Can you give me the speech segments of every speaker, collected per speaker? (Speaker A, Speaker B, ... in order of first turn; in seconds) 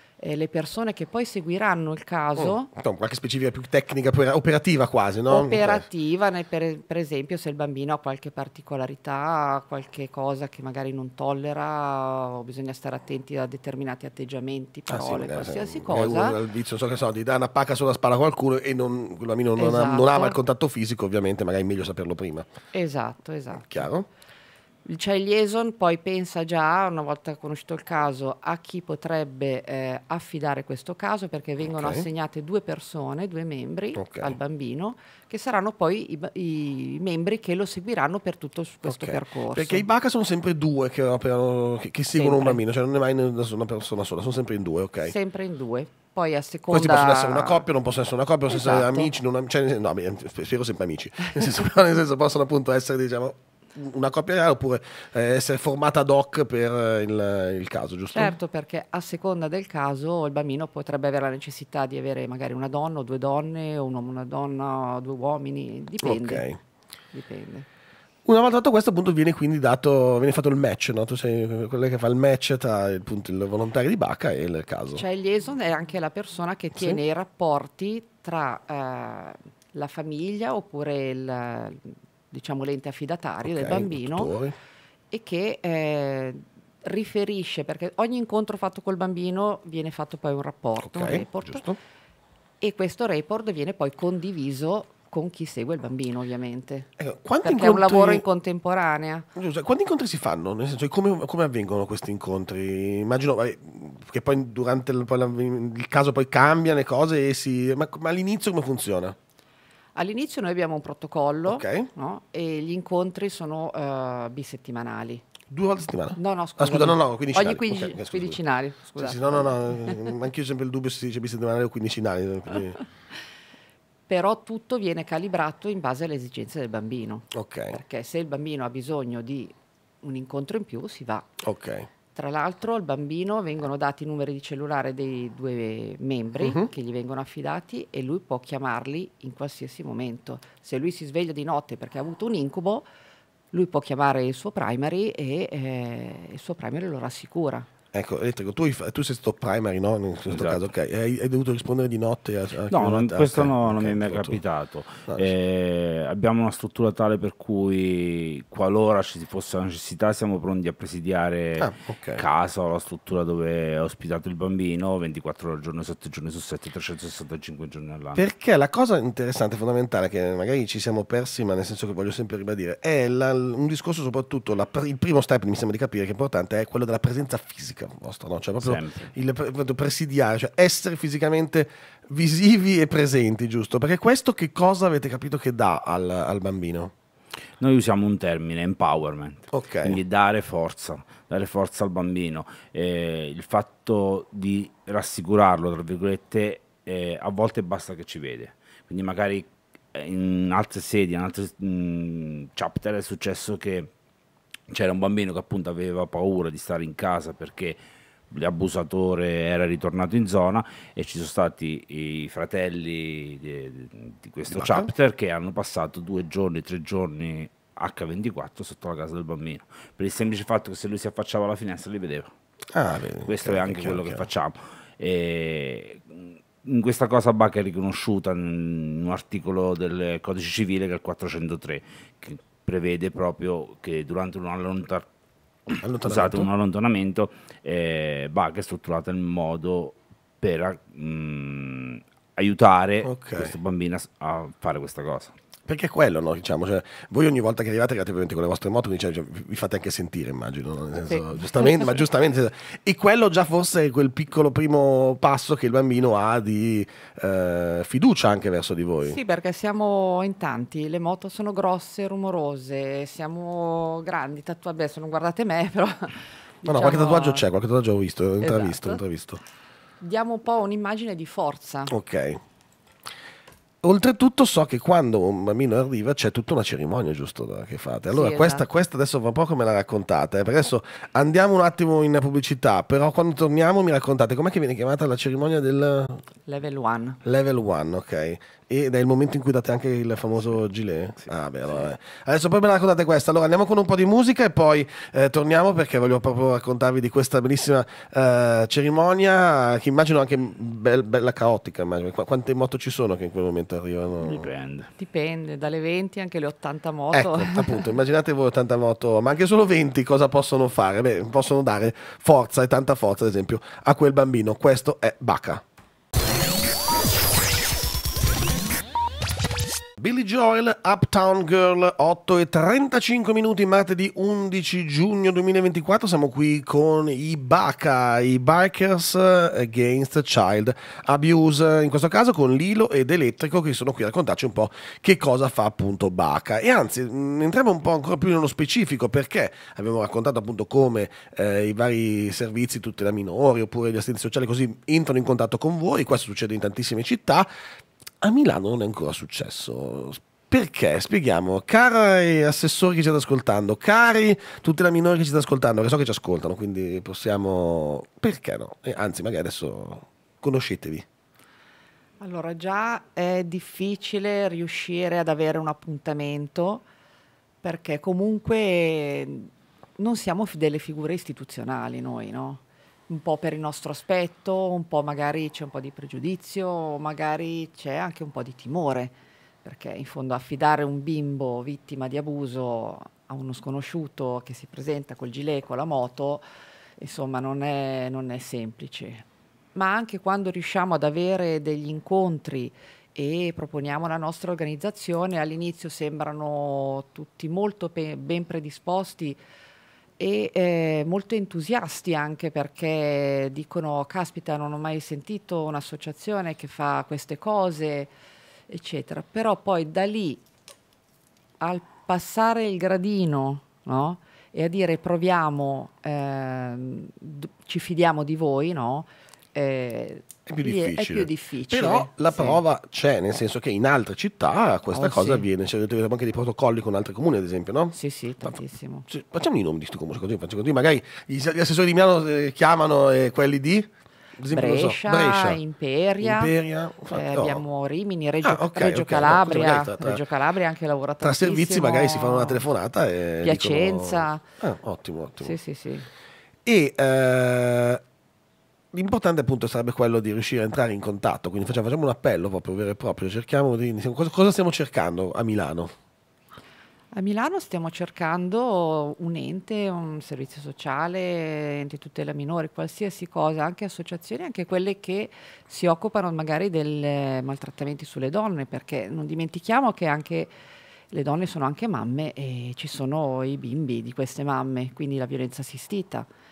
Speaker A: 0.2-2.7, 5.3-16.4, 19.6-20.4, 22.7-23.9, 24.9-39.9, 42.1-42.6, 45.0-47.6, 48.5-49.1, 58.1-66.5, 67.1-67.7, 74.9-84.3, 85.1-91.6, 92.6-96.9, 97.4-99.3, 110.0-115.2, 116.2-120.1, 124.1-131.3, 132.1-142.9, 143.5-147.7, 251.1-252.1, 259.0-267.4, 268.4-269.0, 270.0-271.9, 278.1-278.7, 286.4-287.2, 305.0-307.9, 362.2-366.9, 367.6-386.4, 387.0-399.4, 400.2-408.1, 408.7-410.4, 411.6-422.6, 424.9-425.4, 427.9-429.1, 434.5-436.5, 437.1-442.7, 443.4-444.4, 445.4-446.1, 457.1-470.5, 471.1-476.3
Speaker B: 2.4-5.9, 14.9-22.5, 23.6-24.1, 31.7-32.1, 34.0-34.4, 38.9-45.1, 46.7-58.4, 66.0-66.6, 68.3-75.0, 83.4-84.5, 90.8-91.8, 97.0-98.2, 99.3-109.2, 111.5-111.9, 115.5-118.4, 119.0-122.8, 127.3-127.8, 131.4-131.9, 136.4-136.7, 147.9-154.4, 161.6-162.2, 168.1-186.9, 189.5-190.0, 214.5-214.9, 222.7-224.3, 235.8-236.5, 243.0-243.5, 245.7-259.2, 266.7-269.4, 271.9-272.4, 273.8-286.2, 287.2-304.4, 307.1-315.6, 320.0-347.5, 348.2-361.1, 420.4-435.6, 436.2-437.6, 438.4-440.2, 441.2-445.6, 446.7-448.0, 448.9-455.9
Speaker C: 150.3-150.6, 152.7-168.2, 178.6-179.1, 187.6-203.9, 204.7-207.8, 208.3-222.3, 223.3-235.1, 235.7-245.3, 304.2-304.9